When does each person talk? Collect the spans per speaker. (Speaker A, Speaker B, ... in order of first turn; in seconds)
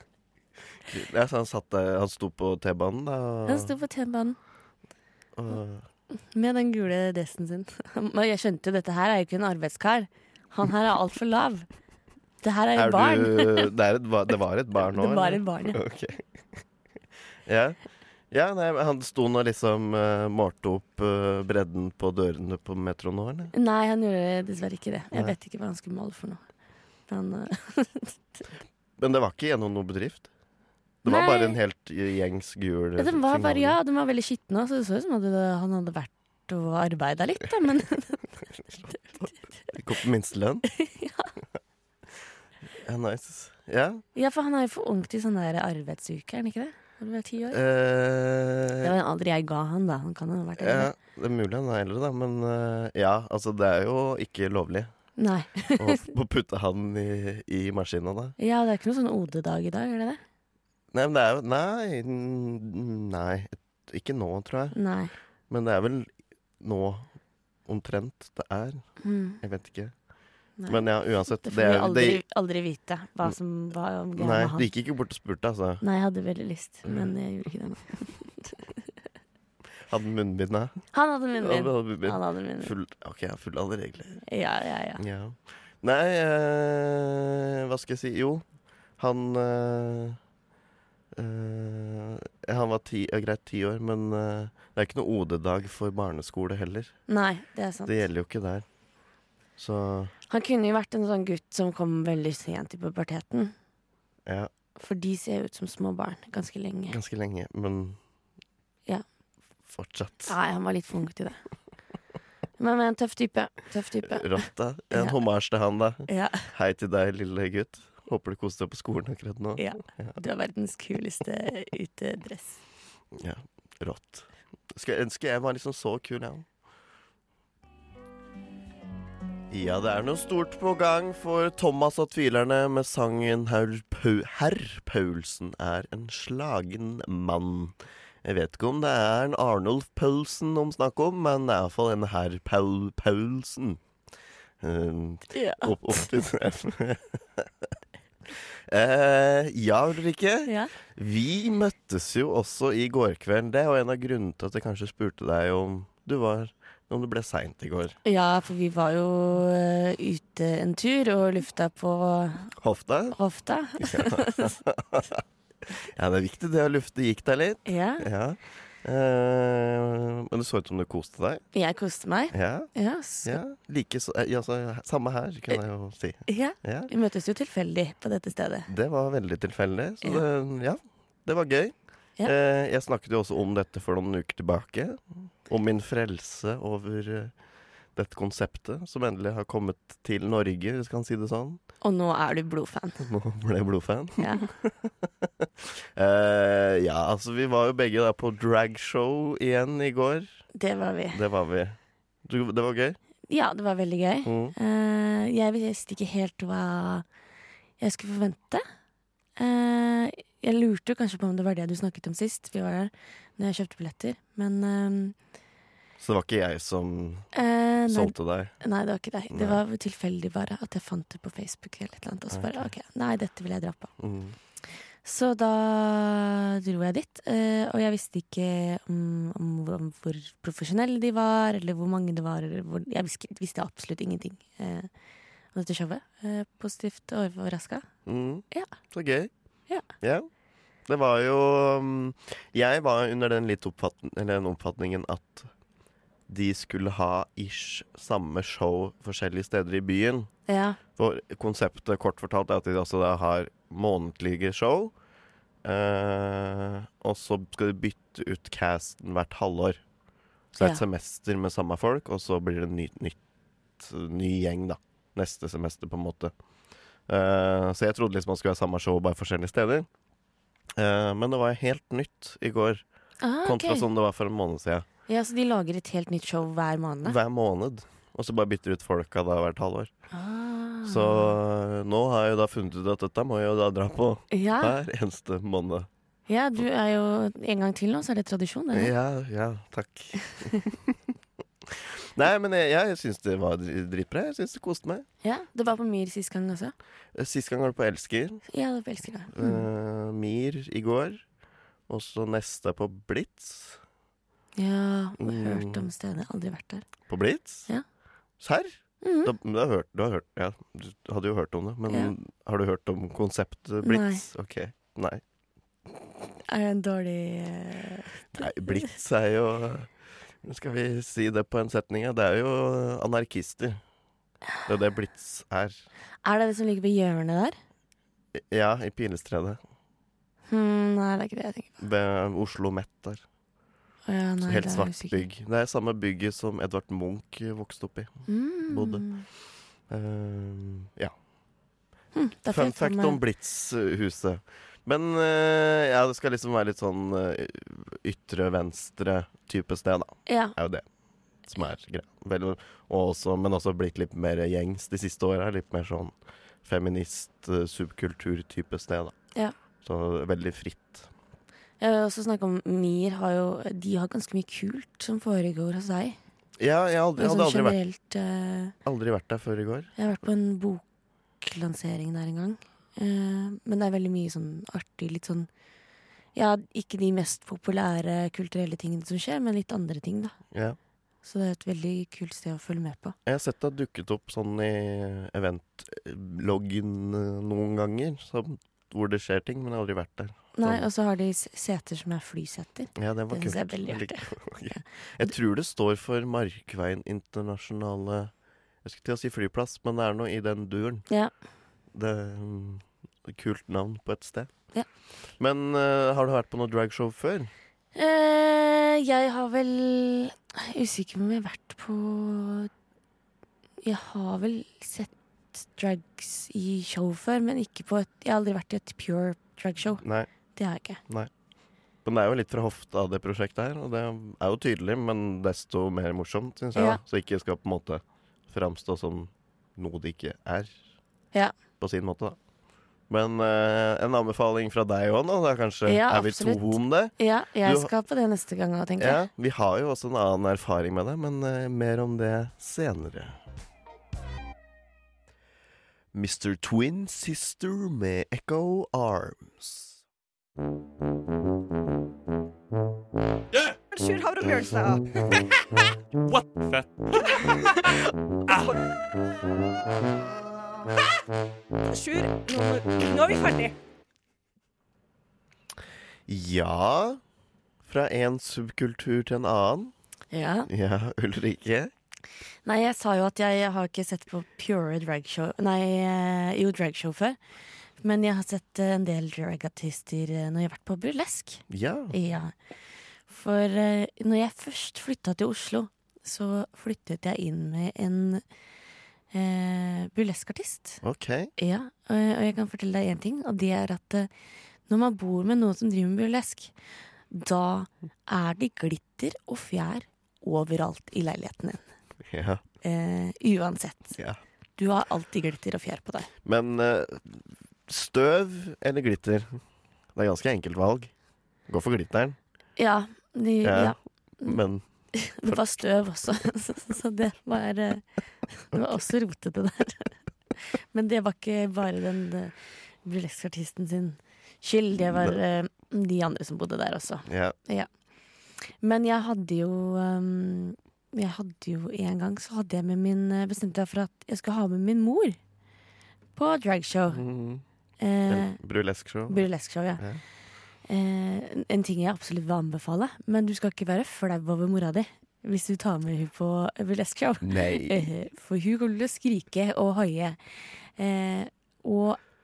Speaker A: 0.9-3.7, 5.3-5.9, 12.8-16.2, 17.5-17.8, 18.3-23.5, 29.0-30.3, 31.0-33.8, 38.7-40.6, 42.8-44.0, 47.5-48.9, 50.6-54.9, 55.8-58.4, 60.9-64.8, 65.5-67.1, 67.7-68.8, 69.4-69.9, 70.7-72.2, 74.2-75.8, 79.9-80.8, 81.4-84.2, 85.0-88.5, 89.0-90.2, 91.1-97.0, 97.9-98.7, 99.6-100.1, 104.3-104.5, 106.9-108.0, 109.7-110.4, 114.1-120.2, 123.1-126.5, 129.5-143.8, 144.6-147.7, 148.7-158.0, 162.6-163.2, 163.8-171.4, 172.3-172.7, 173.2-176.9, 178.7-187.3, 187.9-191.6, 193.0-200.3, 201.1-203.0, 204.2-204.6, 216.0-217.3, 217.9-218.5, 219.3-219.6, 222.3-222.7, 224.0-224.4, 238.1-239.3, 240.0-240.3, 240.9-245.5, 246.3-250.3, 251.0-254.9, 255.6-259.8, 260.5-263.2, 263.8-266.3, 267.1-269.9, 270.8-272.8, 273.4-274.9, 277.0-279.9, 280.9-285.9, 288.7-291.0, 291.7-295.1, 297.1-298.4, 299.3-301.2, 301.9-303.8, 305.2-305.9, 307.1-307.7, 308.4-308.7, 309.2-315.2, 318.3-319.9, 320.4-323.8, 324.7-325.8, 328.4-329.6, 331.8-333.2, 334.4-339.0, 339.9-341.1, 342.5-350.8, 351.5-359.2, 359.8-361.1, 366.6-367.8, 368.9-369.9, 380.5-380.8, 383.3-390.9, 393.0-398.3, 398.8-401.1, 401.9-404.5, 405.4-407.5, 420.0-420.3, 422.1-430.8, 431.8-432.4, 433.1-437.9, 439.0-443.4, 446.1-450.0, 466.3-467.2, 467.8-469.9, 470.7-471.9, 481.7-482.2, 491.0-491.5, 502.2-502.6, 506.4-509.6, 510.1-511.1, 511.7-512.4, 513.6-514.8, 525.0-525.4, 527.3-527.6, 537.1-537.6, 538.3-539.5, 547.4-548.1
Speaker B: 3.5-4.4, 6.3-11.7, 12.4-13.7, 14.9-15.8, 23.5-26.4, 27.1-28.1, 31.1-31.6, 33.0-39.4, 40.7-41.3, 44.2-47.6, 48.8-50.9, 55.2-56.1, 58.4-60.2, 64.7-65.1, 69.0-69.4, 70.6-70.9, 71.4-74.7, 75.8-78.6, 80.9-82.7, 84.3-85.0, 97.1-98.0, 100.3-103.5, 104.8-107.0, 110.3-111.4, 112.6-115.2, 116.1-116.5, 119.6-122.6, 145.3-146.1, 150.5-150.7, 158.0-162.5, 163.1-164.6, 167.7-168.1, 171.5-173.4, 176.3-178.7, 191.8-193.1, 194.2-194.5, 200.6-201.2, 203.3-207.1, 207.8-208.6, 209.4-215.2, 217.3-223.9, 225.0-234.9, 235.5-237.8, 250.5-250.8, 273.2-273.9, 275.1-277.2, 280.1-281.4, 284.3-284.8, 286.3-288.9, 295.2-296.7, 298.5-299.6, 304.6-306.9, 309.0-309.3, 313.8-314.2, 316.5-318.9, 326.2-327.6, 330.5-331.8, 334.1-335.3, 338.3-339.2, 342.1-343.2, 350.3-350.6, 361.8-366.2, 367.2-368.8, 370.0-370.8, 371.4-375.5, 376.4-380.4, 381.2-383.1, 390.6-395.3, 407.9-412.7, 413.8-420.0, 420.5-421.0, 426.8-427.0, 435.9-439.2, 470.3-470.7, 472.7-477.4, 478.0-482.5, 483.3-488.4, 489.3-491.0, 491.6-494.3, 494.9-496.7, 497.3-501.8, 502.8-504.2, 504.8-506.3, 512.8-514.6, 515.1-518.0, 518.6-520.1, 520.9-527.9, 528.8-535.4, 536.4-537.2, 538.0-538.6, 539.3-540.0, 540.9-550.4, 551.0-552.2
Speaker C: 453.7-455.1, 458.5-458.8, 461.9-463.8